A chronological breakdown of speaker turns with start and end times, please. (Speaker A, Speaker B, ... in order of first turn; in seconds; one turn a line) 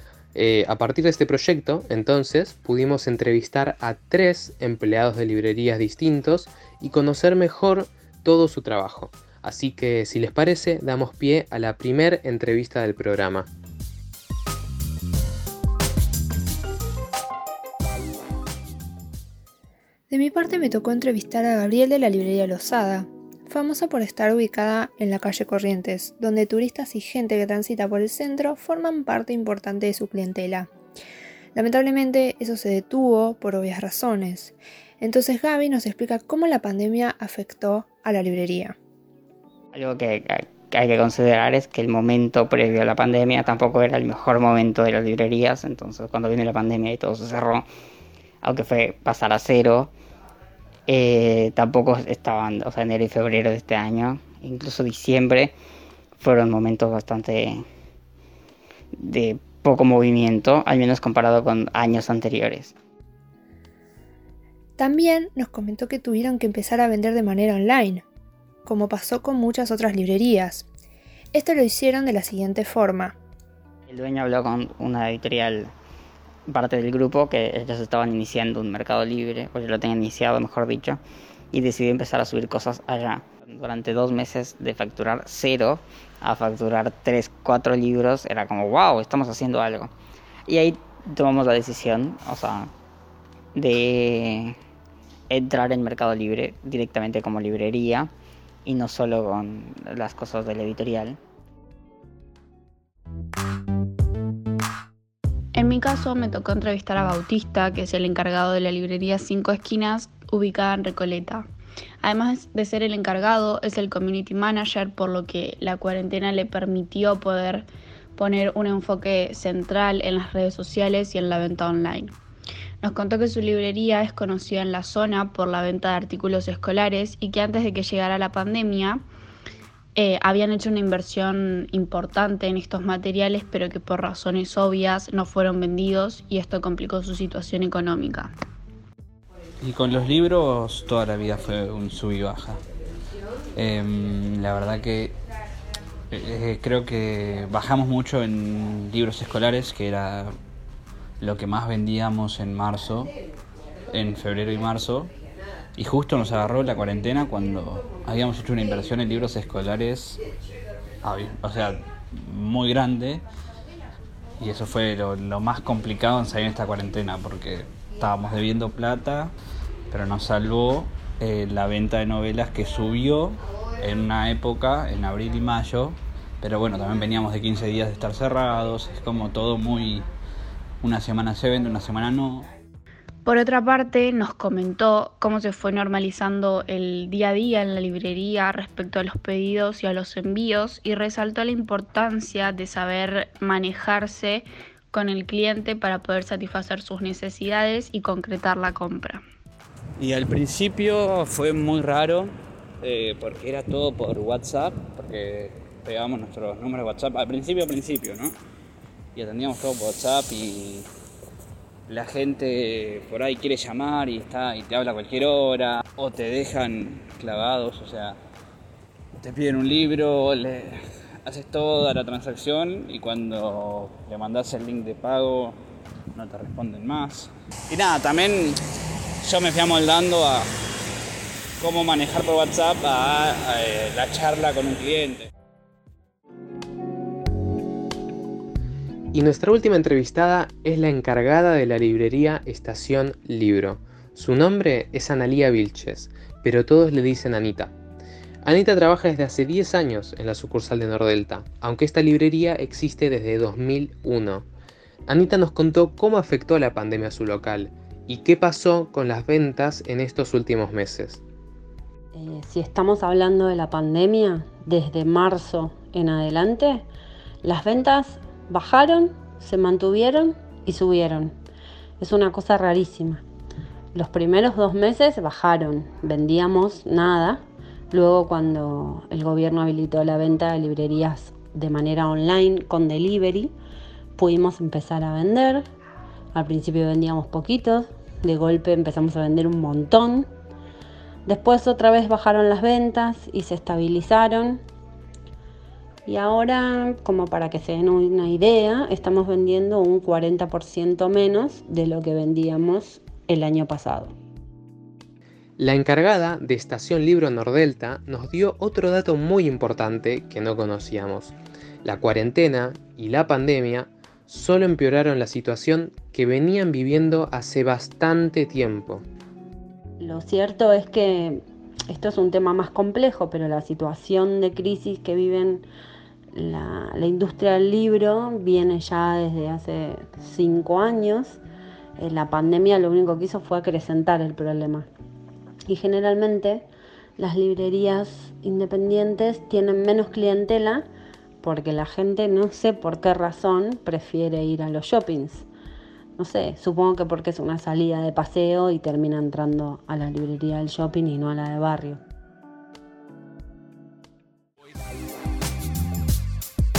Speaker A: 0.3-13.5
Speaker B: 20.1-30.7
Speaker B: 31.5-38.8
Speaker C: 39.7-47.7
Speaker C: 48.4-49.9
Speaker C: 50.9-55.5
Speaker C: 56.2-57.6
Speaker C: 59.0-62.7
Speaker B: 64.8-68.0
Speaker B: 68.6-70.7
Speaker B: 71.3-73.2
Speaker C: 73.9-75.7
Speaker C: 76.5-81.0
Speaker C: 81.5-89.9
Speaker C: 90.5-92.7
Speaker C: 93.5-94.5
Speaker C: 95.3-98.1
Speaker C: 98.6-101.2
Speaker D: 105.5-111.4
Speaker D: 112.0-117.7
Speaker D: 118.2-122.1
Speaker D: 122.8-129.0
Speaker D: 129.9-138.3
Speaker E: 139.6-142.6
Speaker E: 143.6-145.2
Speaker E: 146.1-150.3
Speaker E: 151.2-153.1
Speaker E: 153.9-155.1
Speaker E: 155.8-160.2
Speaker E: 161.0-163.2
Speaker E: 164.4-169.3
Speaker E: 169.9-180.1
Speaker E: 180.8-182.4
Speaker D: 183.2-199.2
Speaker E: 200.0-208.3
Speaker E: 209.1-210.8
Speaker E: 211.9-218.2
Speaker E: 219.2-225.6
Speaker E: 226.1-228.5
Speaker E: 229.2-230.4
Speaker E: 231.6-235.3
Speaker A: 239.1-247.7
Speaker A: 248.4-254.5
Speaker A: 255.1-261.2
Speaker F: 262.1-266.9
Speaker F: 267.4-271.3
Speaker F: 272.0-273.2
Speaker F: 273.9-283.5
Speaker F: 284.1-285.6
Speaker F: 286.3-290.3
Speaker F: 291.2-294.6
Speaker F: 296.1-304.1
Speaker A: 305.6-319.0
Speaker F: 320.0-325.6
Speaker F: 326.3-331.4
Speaker F: 332.0-334.9
Speaker F: 335.7-336.6
Speaker F: 337.2-340.8
Speaker F: 341.4-345.5
Speaker F: 346.2-352.0